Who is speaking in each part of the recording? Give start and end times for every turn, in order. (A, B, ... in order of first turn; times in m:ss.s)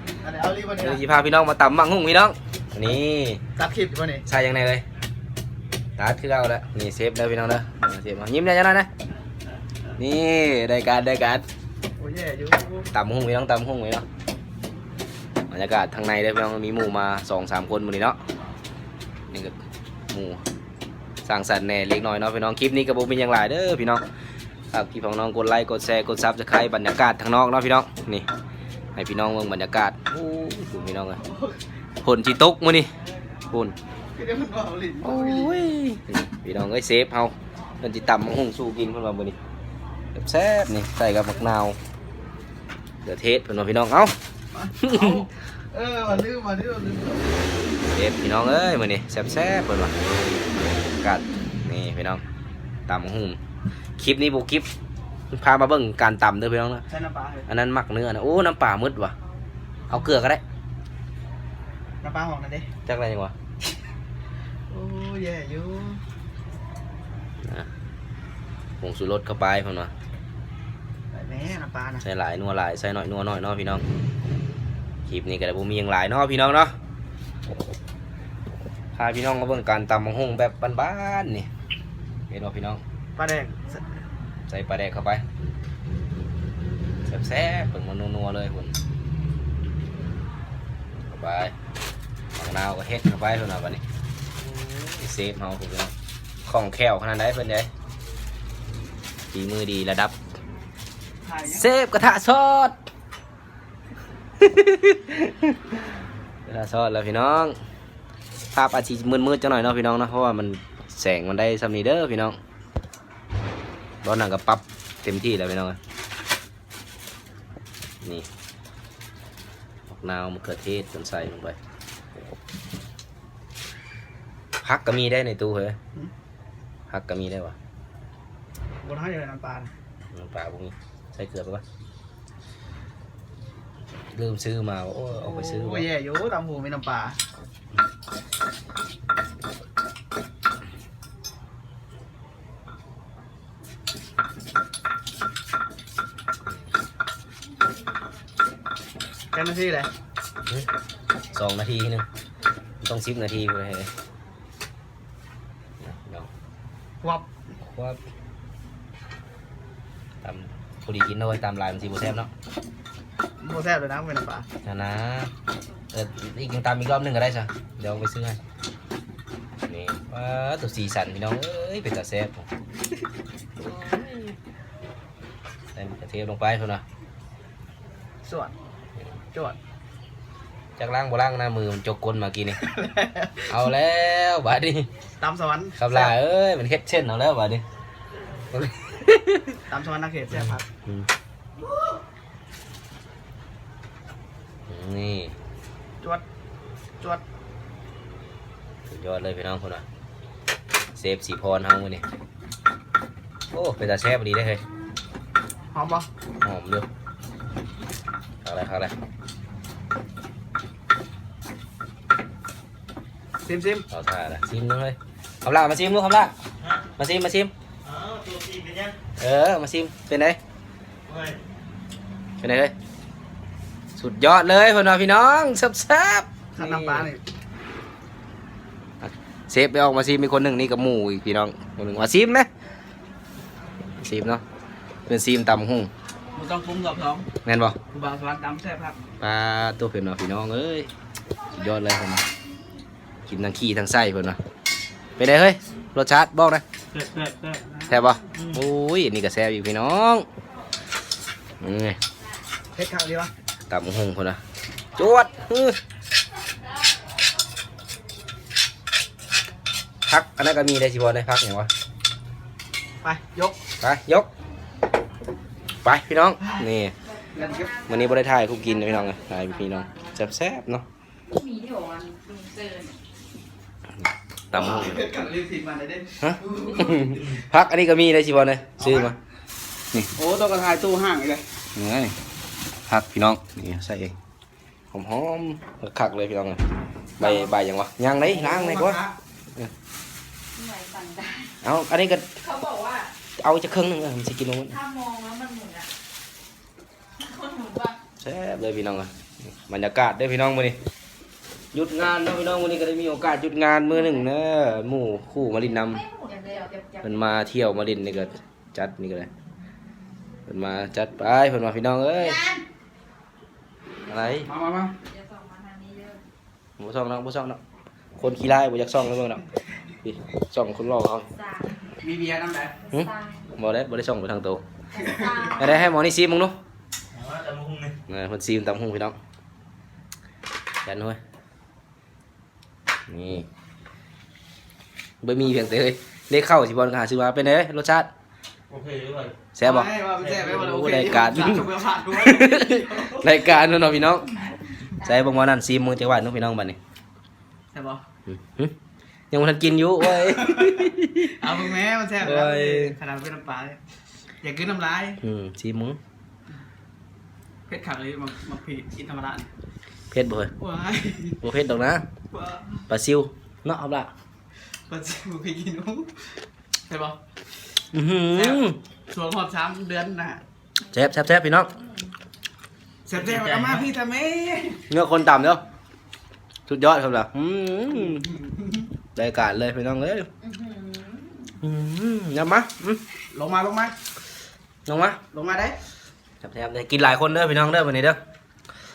0:00.2-0:01.0 A
0:00.8-0:03.4 B
0:03.6-0:04.2 A
0:04.3-0:04.8 B
0:06.0-0:08.9 B
0:10.0-0:11.4 B
0:12.0-0:12.9 A
0:12.9-0:14.0 B
0:15.5-0:18.2 B
0:20.1-0:20.4 B
0:21.2-0:24.0 B
0:24.7-0:28.3 B
0:29.0-0:31.2 B
0:31.2-0:31.6 A
0:32.0-0:32.9 B
0:33.5-0:33.8 B
0:34.1-0:35.6 A
0:35.0-0:39.4 B
0:40.2-0:41.8 B
0:43.0-0:44.1 B
0:44.5-0:47.4 A
0:44.8-0:45.2 B
0:47.8-0:50.0 B
0:50.7-0:52.2 B
0:52.9-0:53.4 B
0:54.0-0:54.7 B
0:55.3-0:56.8 B
0:56.9-0:57.5 A
0:57.5-0:59.1 B
0:59.9-1:00.4 B
1:02.0-1:02.7 A
1:02.9-1:03.3 B
1:04.7-1:06.0 A
1:08.8-1:09.9 B
1:11.1-1:12.0 A
1:12.0-1:13.8 B
1:15.1-1:16.8 B
1:19.0-1:21.5 B
1:22.3-1:22.8 B
1:23.2-1:23.8 A
1:24.5-1:25.2 B
1:27.1-1:28.8 B
1:31.1-1:31.5 B
1:32.4-1:33.8 B
1:34.8-1:35.9 B
1:36.5-1:37.7 B
1:39.3-1:40.2 B
1:41.2-1:41.7 A
1:41.5-1:42.7 B
1:44.4-1:45.6 B
1:46.5-1:47.6 B
1:48.5-1:52.4 B
1:54.0-1:55.8 B
1:59.9-2:01.6 B
2:04.6-2:05.8 B
2:06.9-2:07.6 B
2:08.8-2:09.7 A
2:10.1-2:11.6 B
2:14.1-2:15.9 B
2:15.1-2:17.2 A
2:29.3-2:29.9 A
2:31.3-2:32.1 B
2:32.8-2:33.9 B
2:35.8-2:36.3 B
2:37.6-2:38.0 B
2:40.2-2:42.3 B
2:43.4-2:44.5 A
2:44.6-2:45.3 B
2:45.9-2:48.4 B
2:49.7-2:52.5 B
2:53.6-2:54.4 B
2:55.8-2:56.8 B
2:58.2-2:58.5 A
3:00.8-3:02.6 B
3:02.6-3:03.5 A
3:03.5-3:04.9 B
3:05.2-3:06.1 A
3:05.8-3:07.6 B
3:08.5-3:09.6 B
3:09.7-3:10.7 A
3:14.7-3:15.4 B
3:18.9-3:19.8 B
3:21.0-3:22.0 B
3:23.5-3:24.6 B
3:25.7-3:26.1 A
3:26.4-3:26.9 B
3:28.4-3:28.9 B
3:33.4-3:33.9 A
3:33.9-3:36.3 B
3:37.0-3:37.5 B
3:37.8-3:39.0 C
3:39.2-3:40.4 B
3:41.1-3:41.4 C
3:42.4-3:42.7 B
3:44.0-3:47.1 B
3:46.6-3:47.2 A
3:49.0-3:52.5 B
3:54.0-3:54.4 B
3:55.1-3:55.9 B
3:56.4-3:57.3 A
3:57.4-3:57.8 B
3:57.9-3:59.0 A
3:59.2-4:00.9 B
4:01.5-4:02.4 D
4:01.5-4:02.3 B
4:03.3-4:04.4 B
4:05.2-4:06.6 B
4:06.9-4:07.7 C
4:07.9-4:10.3 B
4:11.6-4:12.0 B
4:12.7-4:13.3 A
4:13.7-4:14.4 B
4:14.9-4:15.8 B
4:20.1-4:21.7 B
4:23.0-4:23.6 A
4:23.8-4:24.3 B
4:25.8-4:26.9 B
4:27.2-4:29.2 D
4:27.3-4:27.7 A
4:27.8-4:30.8 B
4:31.3-4:32.9 D
4:34.5-4:35.0 B
4:34.5-4:37.2 A
4:36.2-4:39.2 B
4:38.8-4:39.1 A
4:40.2-4:41.4 A
4:41.8-4:42.2 B
4:42.9-4:44.2 B
4:44.9-4:46.6 B
4:47.2-4:49.0 B
4:47.2-4:47.6 A
4:48.3-4:49.1 A
4:50.6-4:51.6 D
4:51.6-4:52.3 B
4:52.4-4:53.1 D
4:53.4-4:54.8 B
4:54.7-4:55.9 D
4:57.2-4:58.0 D
4:58.2-5:00.8 B
5:01.7-5:06.0 B
5:05.8-5:07.0 D
5:07.0-5:09.3 B
5:10.5-5:12.4 B
5:12.2-5:12.6 D
5:14.1-5:14.5 B
5:14.4-5:15.0 A
5:15.0-5:16.2 D
5:16.8-5:17.6 B
5:18.2-5:19.4 B
5:20.0-5:21.3 B
5:21.3-5:21.7 D
5:22.0-5:22.8 A
5:22.8-5:23.5 D
5:22.9-5:24.6 B
5:25.0-5:25.8 D
5:25.4-5:26.6 B
5:27.1-5:28.0 C
5:28.1-5:29.2 B
5:30.8-5:31.2 B
5:33.1-5:33.5 B
5:35.2-5:38.1 B
5:38.7-5:39.3 C
5:39.6-5:39.9 B
5:39.6-5:43.3 A
5:40.5-5:41.6 B
5:42.2-5:44.4 B
5:45.0-5:46.8 B
5:47.7-5:48.0 A
5:48.3-5:48.7 B
5:49.3-5:51.4 B
5:50.2-5:53.8 A
5:52.2-5:52.9 B
5:54.4-5:55.2 A
5:55.2-5:56.0 B
5:57.7-5:59.5 A
6:00.1-6:00.5 B
6:00.6-6:01.4 A
6:01.4-6:02.1 B
6:02.3-6:02.6 A
6:02.9-6:04.1 B
6:04.9-6:06.1 A
6:06.9-6:07.2 A
6:07.9-6:08.8 B
6:08.3-6:10.4 A
6:10.9-6:11.7 B
6:11.7-6:12.1 D
6:13.1-6:14.8 A
6:13.2-6:13.8 C
6:14.9-6:15.6 B
6:16.7-6:18.3 B
6:19.2-6:20.3 B
6:20.4-6:21.6 D
6:21.6-6:23.0 B
6:23.3-6:23.9 A
6:24.9-6:25.2 B
6:25.3-6:25.8 A
6:26.4-6:28.2 B